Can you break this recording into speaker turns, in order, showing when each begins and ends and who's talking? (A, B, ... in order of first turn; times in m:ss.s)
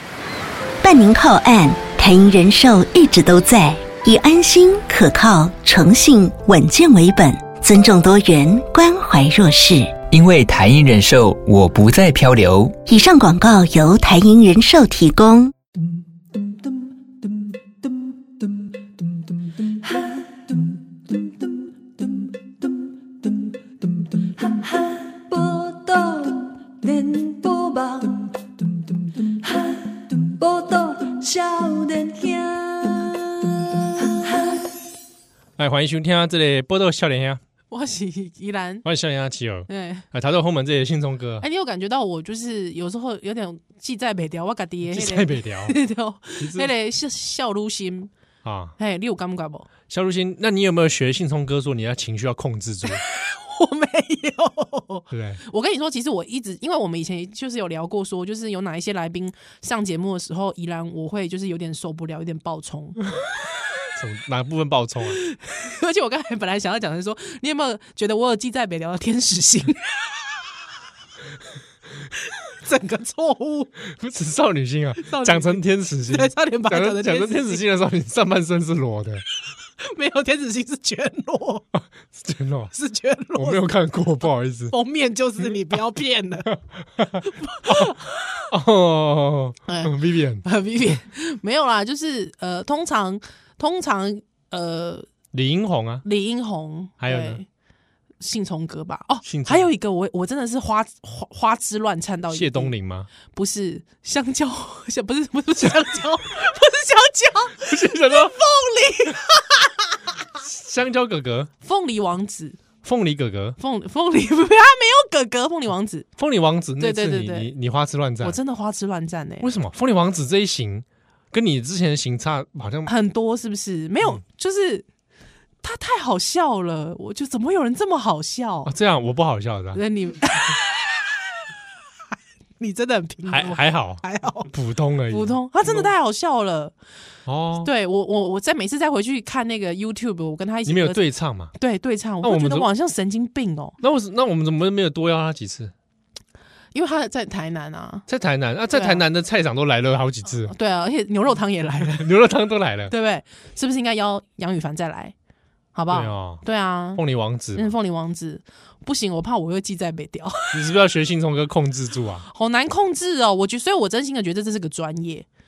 0:00.8-0:10.0 A
0:10.1-0:12.8 B
0:12.9-0:15.5 A
0:16.4-0:16.9 C
0:19.5-0:34.7 C
0:35.6-0:37.4 D
0:37.7-0:38.8 E
0:38.8-0:41.4 D
0:39.7-0:40.1 E
0:41.4-0:48.1 E
0:44.9-0:45.8 D
0:46.4-0:46.7 D
0:48.4-0:48.8 D
0:48.8-0:49.7 E
0:49.9-0:53.0 D
0:52.8-1:03.0 E
0:55.1-0:55.4 D
1:04.0-1:05.2 D
1:05.1-1:10.2 E
1:12.3-1:13.7 E
1:13.8-1:19.2 D
1:15.0-1:17.6 E
1:19.8-1:21.7 E
1:22.1-1:22.7 D
1:22.7-1:23.6 E
1:23.3-1:24.7 D
1:24.7-1:26.6 E
1:26.5-1:27.9 D
1:27.2-1:28.5 E
1:28.5-1:30.4 D
1:29.7-1:35.0 E
1:35.3-1:36.0 D
1:36.0-1:37.4 E
1:37.0-1:37.4 D
1:38.2-1:50.0 E
1:39.2-1:39.7 D
1:42.3-1:43.1 D
1:47.7-1:48.4 D
1:50.4-1:51.5 D
1:51.6-1:52.6 E
1:52.8-1:53.6 D
1:53.6-1:56.1 E
1:56.2-1:58.4 D
1:56.8-1:57.5 E
1:58.2-1:59.5 E
1:59.4-2:02.9 D
2:02.8-2:04.8 E
2:05.6-2:08.7 E
2:08.6-2:09.8 D
2:09.7-2:11.1 E
2:12.6-2:14.5 E
2:13.2-2:15.9 D
2:15.1-2:16.7 E
2:17.3-2:17.7 D
2:17.6-2:21.0 E
2:20.6-2:21.5 D
2:21.5-2:23.8 E
2:22.2-2:22.7 D
2:23.8-2:25.7 D
2:26.7-2:28.1 E
2:28.1-2:30.5 D
2:28.7-2:29.0 E
2:30.5-2:32.0 E
2:31.8-2:32.9 D
2:32.9-2:35.1 E
2:35.7-2:37.0 E
2:35.9-2:36.4 D
2:36.9-2:37.7 D
2:37.5-2:40.6 E
2:40.5-2:42.2 D
2:42.2-2:45.2 E